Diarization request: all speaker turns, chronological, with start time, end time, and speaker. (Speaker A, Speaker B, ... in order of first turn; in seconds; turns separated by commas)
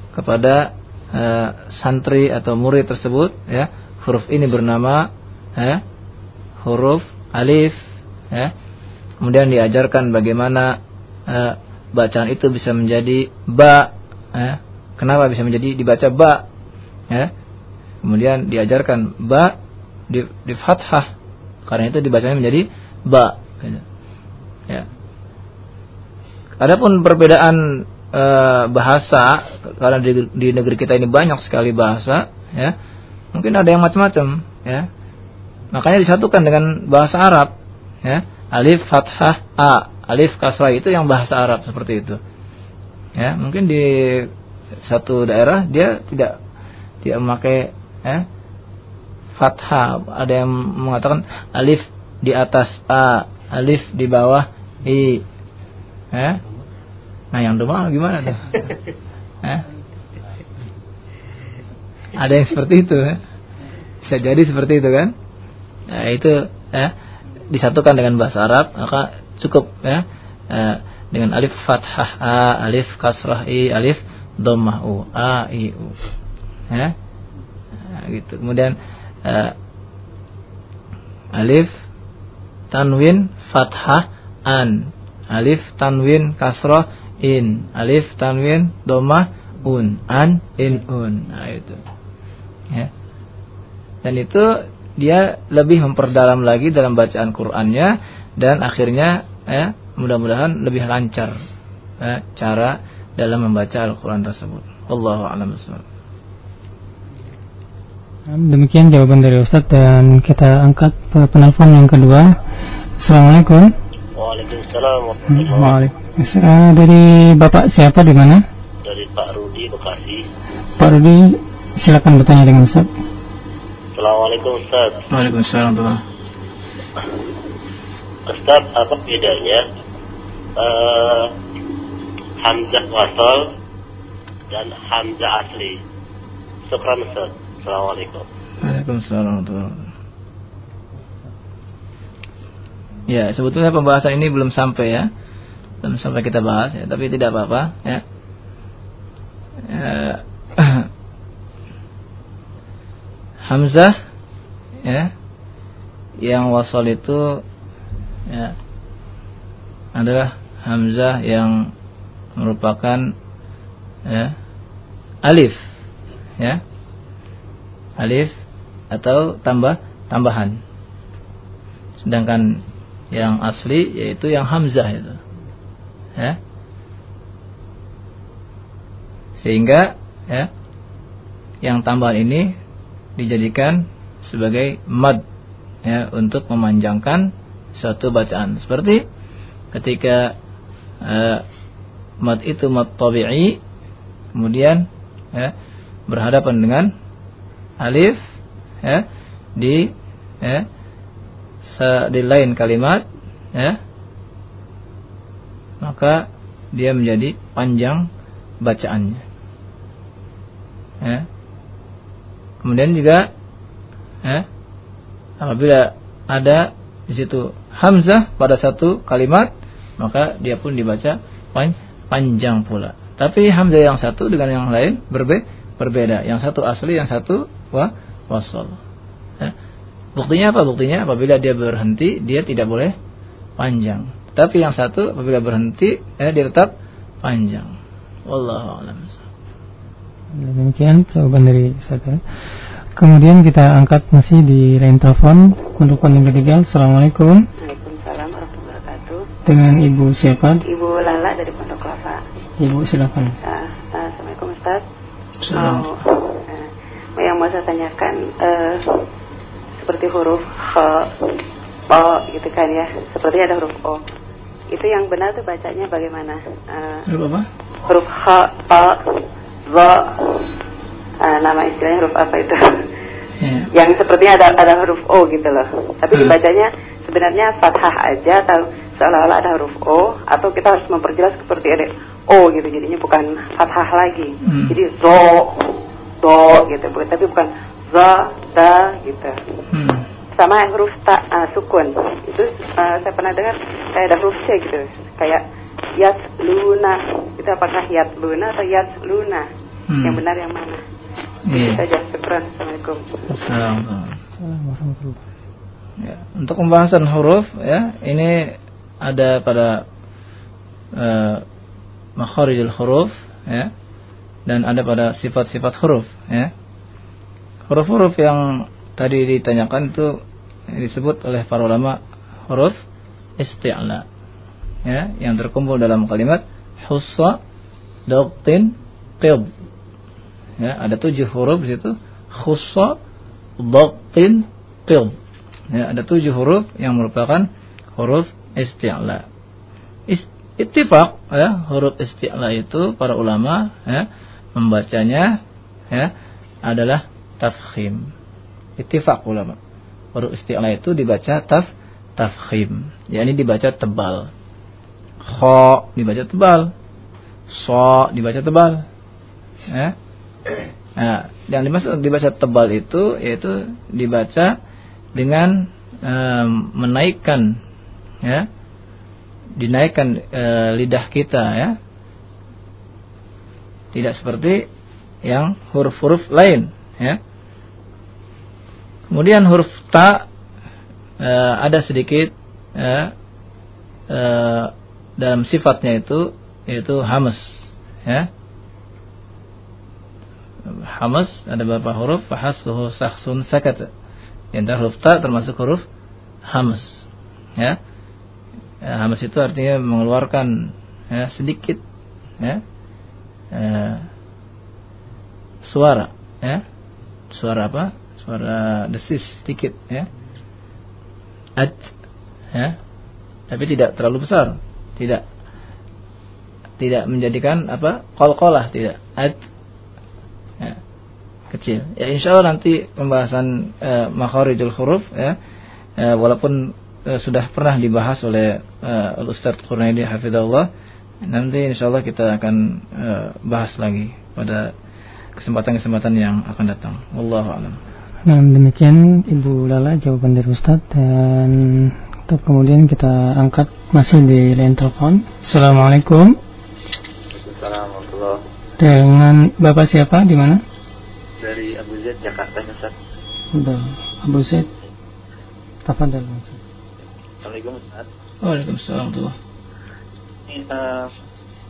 Speaker A: 0.1-5.1, Speaker A: 6.6-7.8, Speaker A: 9.2-10.8, Speaker A: 11.3-16.4, Speaker A: 18.0-19.6, Speaker A: 20.1-21.1, Speaker A: 21.7-23.8, Speaker A: 26.6-32.8, Speaker A: 33.4-34.9, Speaker A: 35.7-37.5, Speaker A: 38.0-42.2, Speaker A: 43.2-44.3, Speaker A: 44.9-46.4, Speaker A: 47.0-48.3, Speaker A: 49.4-55.2, Speaker A: 56.1-56.4, Speaker A: 57.3-58.7, Speaker A: 62.2-63.2, Speaker A: 64.0-65.1, Speaker A: 65.9-66.9, Speaker A: 67.5-76.0, Speaker A: 77.9-79.5, Speaker A: 81.3-81.7, Speaker A: 82.7-91.8, Speaker A: 94.0-101.3, Speaker A: 102.0-105.8, Speaker B: 108.3-112.4, Speaker B: 113.0-113.7, Speaker C: 114.2-115.8, Speaker B: 115.3-118.5, Speaker C: 118.8-120.2, Speaker B: 120.8-122.9, Speaker C: 124.0-125.1, Speaker A: 125.1-126.0, Speaker C: 128.3-129.6, Speaker C: 130.6-131.3, Speaker C: 132.4-133.5, Speaker C: 134.5-135.8, Speaker C: 136.7-138.3, Speaker A: 138.6-139.8, Speaker A: 143.1-145.1, Speaker A: 145.8-148.0, Speaker A: 149.7-150.9, Speaker A: 153.5-153.9, Speaker A: 154.8-155.1, Speaker A: 156.2-157.4, Speaker A: 158.3-158.6, Speaker A: 159.9-161.7, Speaker A: 162.4-163.1, Speaker A: 164.1-164.3, Speaker A: 165.2-165.6, Speaker A: 168.0-168.3, Speaker A: 168.9-170.6, Speaker A: 172.1-172.6, Speaker A: 173.1-175.2, Speaker A: 179.4-180.5, Speaker A: 181.6-182.5, Speaker A: 183.2-185.2, Speaker A: 185.9-189.0, Speaker A: 189.7-190.3, Speaker A: 191.0-191.4, Speaker A: 192.2-193.6, Speaker A: 194.4-195.5, Speaker A: 196.1-196.9, Speaker A: 197.8-198.2, Speaker A: 199.6-199.9, Speaker A: 201.8-203.0, Speaker A: 205.8-208.1, Speaker A: 208.6-209.2, Speaker A: 212.6-213.2, Speaker A: 215.4-228.8, Speaker A: 230.2-232.9, Speaker A: 233.6-236.7, Speaker A: 237.2-237.7, Speaker A: 238.3-239.2, Speaker B: 240.3-242.2, Speaker B: 243.0-247.4, Speaker D: 247.6-249.2, Speaker B: 249.5-250.6, Speaker D: 250.6-252.2, Speaker B: 252.6-253.4, Speaker D: 253.4-254.8, Speaker A: 255.4-255.9, Speaker D: 255.5-259.1, Speaker D: 259.8-264.1, Speaker D: 264.7-267.1, Speaker A: 267.1-267.4, Speaker D: 267.9-270.6, Speaker D: 271.2-272.9, Speaker A: 273.4-273.7, Speaker D: 273.7-289.6, Speaker A: 284.4-284.8, Speaker A: 289.7-290.1, Speaker D: 290.4-295.4, Speaker D: 295.9-299.5, Speaker A: 299.9-300.2, Speaker D: 300.0-300.8, Speaker A: 301.5-301.8, Speaker D: 301.5-303.3, Speaker A: 303.3-304.2, Speaker B: 304.4-305.2, Speaker A: 306.0-309.8, Speaker A: 311.0-311.4, Speaker A: 312.2-313.7, Speaker A: 314.5-316.5, Speaker A: 317.7-318.4, Speaker A: 319.0-320.1, Speaker A: 320.7-322.0, Speaker A: 322.5-322.8, Speaker A: 323.4-324.1, Speaker A: 324.9-327.4, Speaker A: 328.1-329.5, Speaker A: 330.6-333.0, Speaker A: 333.6-335.1, Speaker A: 335.7-339.2, Speaker A: 340.1-344.1, Speaker A: 344.6-345.3, Speaker A: 346.7-348.1, Speaker A: 348.8-349.6, Speaker A: 350.1-354.3, Speaker A: 355.2-356.7, Speaker A: 357.5-358.9, Speaker A: 359.7-359.9, Speaker A: 361.0-364.5, Speaker A: 365.2-367.6, Speaker A: 369.6-371.7, Speaker A: 373.9-374.7, Speaker A: 375.3-377.2, Speaker A: 379.1-380.3, Speaker A: 381.2-383.1, Speaker A: 384.1-387.6, Speaker A: 390.7-393.9, Speaker A: 394.5-395.8, Speaker A: 396.5-396.9, Speaker A: 398.9-401.8, Speaker A: 403.5-404.1, Speaker A: 405.7-406.6, Speaker A: 407.3-410.1, Speaker A: 411.6-411.9, Speaker A: 413.5-415.2, Speaker A: 416.8-419.4, Speaker A: 421.5-425.4, Speaker A: 426.0-430.7, Speaker A: 431.3-434.7, Speaker A: 435.4-437.8, Speaker B: 438.2-446.4, Speaker E: 447.3-448.4, Speaker B: 448.8-450.6, Speaker E: 451.4-452.9, Speaker B: 453.5-454.7, Speaker B: 455.9-456.6, Speaker E: 457.4-458.1, Speaker A: 458.4-459.4, Speaker E: 460.5-461.1